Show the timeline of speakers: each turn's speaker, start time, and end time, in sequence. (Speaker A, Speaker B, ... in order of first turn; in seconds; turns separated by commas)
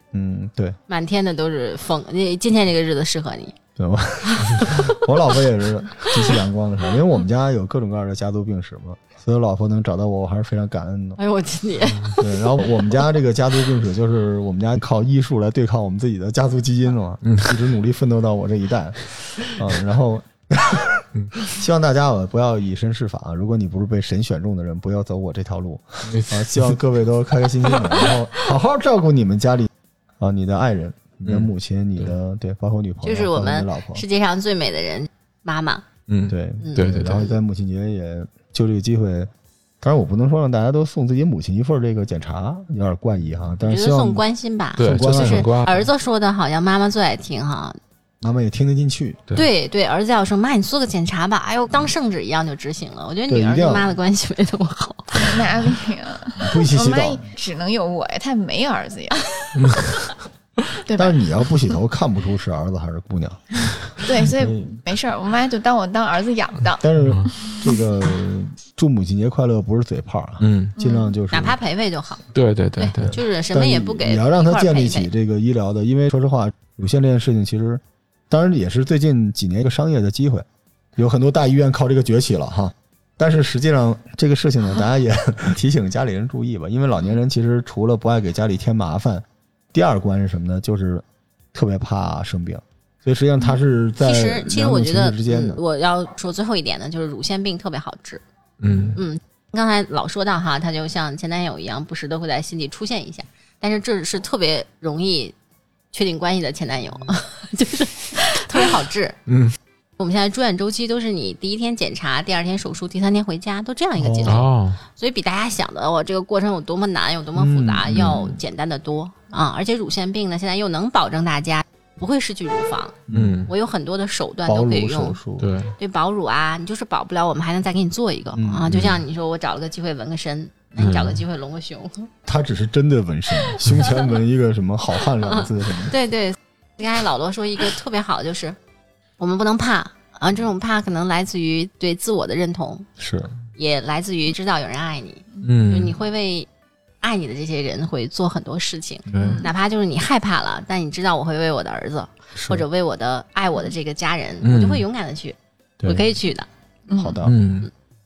Speaker A: 0.1-0.8, Speaker B: 0.9-3.5, Speaker A: 3.8-11.2, Speaker B: 4.2-5.0, Speaker B: 11.2-12.2, Speaker A: 12.2-34.0, Speaker C: 26.1-26.7, Speaker B: 33.0-35.9, Speaker C: 36.1-37.2, Speaker A: 36.3-44.2, Speaker B: 36.6-37.3, Speaker B: 43.6-47.8, Speaker C: 44.8-45.9, Speaker A: 44.8-45.5, Speaker A: 48.2-49.2, Speaker B: 49.3-55.5, Speaker A: 53.3-53.9, Speaker D: 55.1-60.0, Speaker A: 56.4-57.2, Speaker C: 59.6-59.8, Speaker D: 60.9-61.2, Speaker A: 61.0-63.6, Speaker D: 64.0-66.8, Speaker A: 64.2-64.8, Speaker A: 66.8-71.6, Speaker C: 67.0-67.3, Speaker D: 67.4-67.7, Speaker C: 70.4-70.8, Speaker D: 70.8-71.2, Speaker B: 71.3-72.2, Speaker C: 72.3-73.1, Speaker B: 72.8-75.1, Speaker A: 73.0-80.4, Speaker A: 81.0-95.6, Speaker B: 94.0-98.2, Speaker C: 98.6-99.0, Speaker B: 98.9-105.3, Speaker B: 105.9-109.2, Speaker C: 109.2-109.5, Speaker B: 110.0-125.2, Speaker A: 114.0-114.5, Speaker C: 114.2-114.8, Speaker A: 117.3-118.4, Speaker C: 117.9-118.2, Speaker A: 123.1-123.5, Speaker C: 123.1-123.5, Speaker A: 124.5-125.6, Speaker C: 125.4-125.7, Speaker B: 125.8-132.1, Speaker A: 128.4-128.9, Speaker C: 128.7-129.0, Speaker C: 130.8-131.2, Speaker A: 132.2-135.9, Speaker B: 135.2-138.6, Speaker B: 139.2-142.9, Speaker A: 143.0-143.3, Speaker B: 143.6-146.5, Speaker C: 145.4-145.9, Speaker B: 147.0-156.5, Speaker C: 149.1-149.4, Speaker D: 149.2-149.5, Speaker A: 152.4-152.6, Speaker C: 154.4-154.8, Speaker A: 155.8-156.1, Speaker D: 156.9-157.2, Speaker A: 156.9-157.4, Speaker C: 157.2-157.7